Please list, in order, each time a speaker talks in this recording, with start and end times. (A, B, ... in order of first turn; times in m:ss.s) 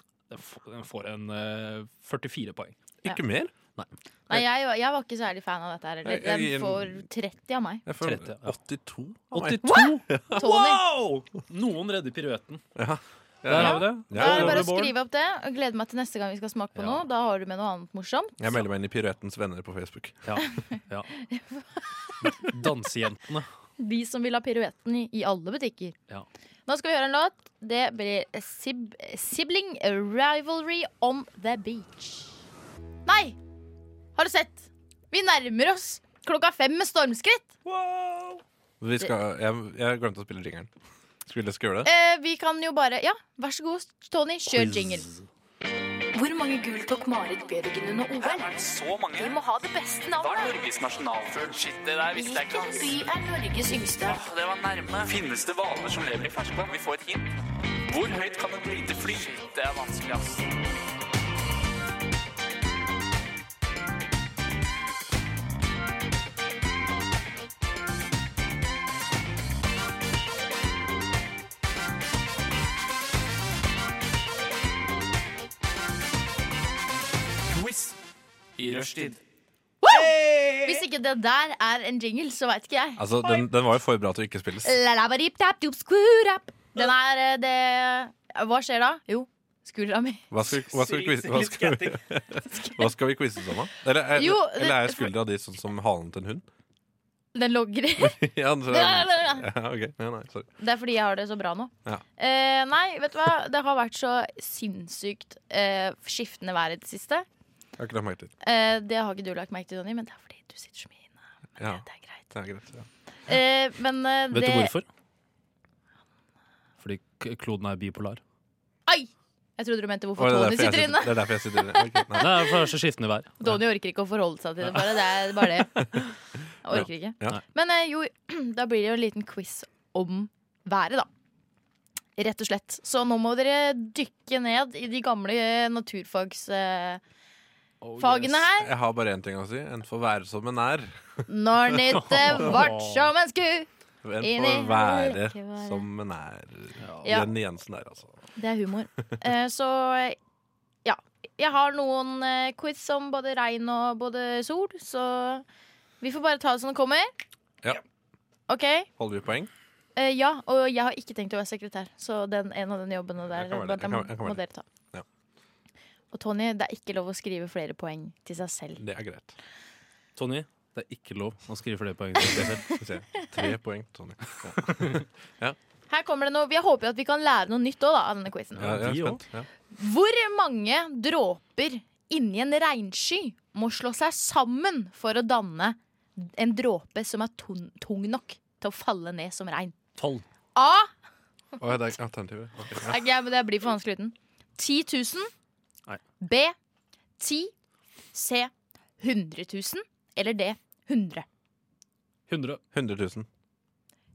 0:00.3-0:02.8 A
0:03.0-0:03.5 B
0:04.3-0:07.8 C
0:06.0-0:07.1 B
0:07.9-0:10.4 B
0:08.0-0:08.6 A
0:09.3-0:12.6 A
0:09.7-0:10.8 C
0:12.8-0:14.7 B
0:13.5-0:14.9 A
0:13.5-0:18.4 C
0:16.8-0:17.0 A
0:18.4-0:20.4 B
0:20.3-0:21.1 A
0:21.2-0:22.5 C
0:22.2-0:23.5 A
0:23.8-0:26.0 C
0:26.7-0:32.3 C
0:33.1-0:33.4 C
0:34.2-0:37.5 C
0:37.6-0:38.4 A
0:38.8-0:40.7 B
0:41.3-0:41.9 B
0:41.8-0:45.1 C
0:44.5-0:45.2 A
0:46.1-0:48.5 C
0:48.2-0:49.4 D
0:49.1-0:50.6 C
0:50.2-0:53.0 D
0:52.1-0:54.3 C
0:54.0-0:57.3 D
0:57.9-1:00.5 D
1:17.5-1:18.0 D
1:18.6-1:19.2 D
1:19.8-1:23.0 C
1:20.0-1:20.7 A
1:23.0-1:24.8 B
1:24.6-1:30.2 C
1:30.3-1:36.4 B
1:30.5-1:32.0 A
1:34.2-1:35.1 C
1:37.3-1:39.5 C
1:38.0-1:40.5 B
1:40.6-1:47.2 C
1:47.8-1:48.3 B
1:48.4-1:52.3 C
1:51.6-1:52.9 B
1:53.3-1:54.7 C
1:54.3-1:54.8 A
1:56.8-1:58.2 A
1:58.9-2:02.3 C
2:00.2-2:02.3 B
2:02.2-2:03.4 A
2:03.4-2:06.0 C
2:06.6-2:11.1 C
2:06.7-2:07.4 B
2:12.2-2:17.0 C
2:17.8-2:18.4 A
2:18.0-2:18.7 C
2:18.6-2:21.2 B
2:21.3-2:23.7 C
2:21.9-2:23.1 A
2:24.0-2:28.1 B
2:24.2-2:25.9 C
2:26.8-2:27.2 A
2:27.0-2:27.3 C
2:28.4-2:30.2 C
2:30.8-2:35.4 C
2:36.0-2:37.1 C
2:38.5-2:38.9 C
2:39.0-2:39.5 B
2:40.0-2:44.6 C
2:43.3-2:45.0 B
2:46.1-2:48.8 C
2:48.8-2:49.4 B
2:50.2-2:52.7 A
2:52.3-2:52.8 C
2:52.3-2:55.6 B
2:55.9-2:58.8 C
2:58.6-2:59.5 B
2:58.6-2:59.2 A
2:59.7-3:09.8 C
3:10.0-3:10.2 A
3:10.6-3:10.9 C
3:11.6-3:13.0 B
3:12.8-3:15.3 C
3:16.2-3:16.6 C
3:17.2-3:17.5 C
3:18.1-3:21.3 C
3:22.3-3:22.6 A
3:22.7-3:23.3 B